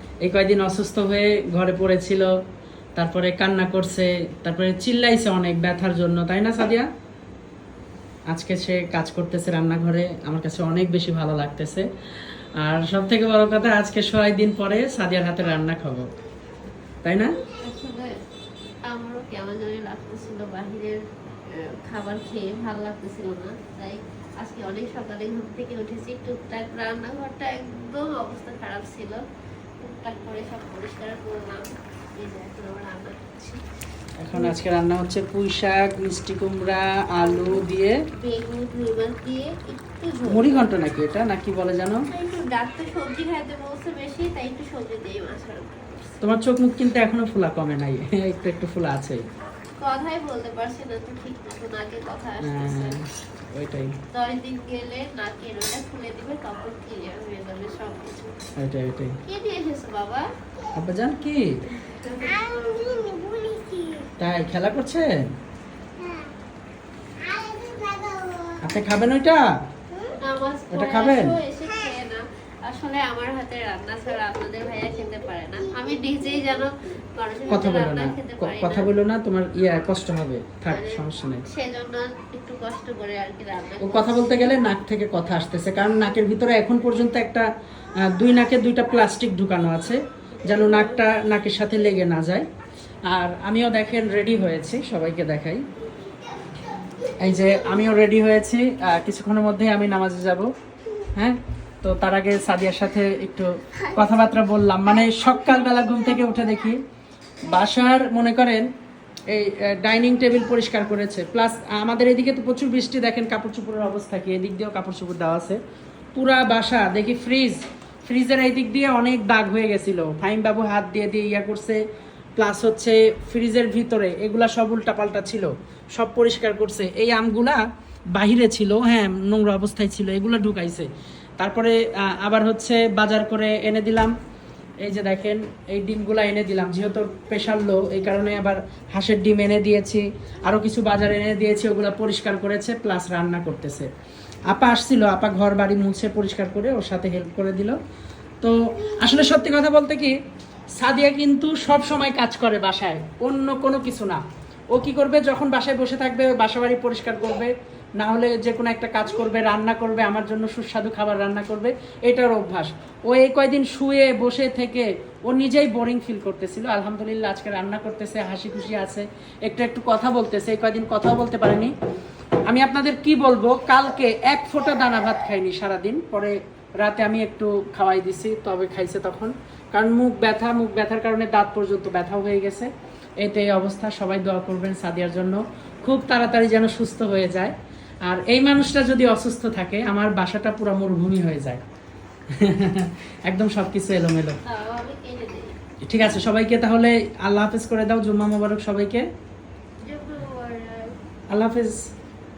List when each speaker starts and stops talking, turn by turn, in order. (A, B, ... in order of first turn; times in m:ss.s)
0:00.2-0:02.3 A
0:03.0-0:06.9 A
0:08.3-0:11.9 A
0:12.6-0:16.1 A
0:17.0-0:17.3 A
0:17.6-0:18.2 B
0:18.9-0:29.2 B
0:29.8-0:33.6 B
0:34.2-0:38.0 A
0:34.3-0:34.6 B
0:37.2-0:40.7 B
0:40.3-0:42.0 A
0:42.1-0:46.2 B
0:46.2-0:49.3 A
0:49.8-0:53.0 B
0:52.4-0:54.0 A
0:54.1-0:58.3 B
0:58.6-0:59.2 A
0:59.2-1:00.3 B
1:00.8-1:01.5 A
1:01.7-1:04.1 B
1:04.2-1:05.3 A
1:07.2-1:08.6 B
1:08.6-1:09.4 A
1:10.0-1:18.9 B
1:10.7-1:11.4 A
1:17.5-1:21.4 A
1:20.7-1:24.5 B
1:23.8-1:27.5 A
1:28.0-1:32.4 A
1:30.4-1:31.1 B
1:33.1-1:35.6 A
1:37.2-1:40.5 A
1:41.2-1:46.8 A
1:47.4-1:48.7 A
1:49.3-1:55.6 A
1:56.1-2:01.8 A
2:02.4-2:07.6 A
2:08.1-2:14.1 A
2:14.8-2:23.9 A
2:24.5-2:27.8 A
2:28.4-2:30.2 A
2:30.8-2:51.7 A
2:52.5-3:07.5 A
3:08.0-3:11.6 A
3:12.3-3:14.4 A
3:14.4-3:15.5 B
3:15.8-3:19.0 A
3:19.8-3:20.9 B
3:21.3-3:21.8 A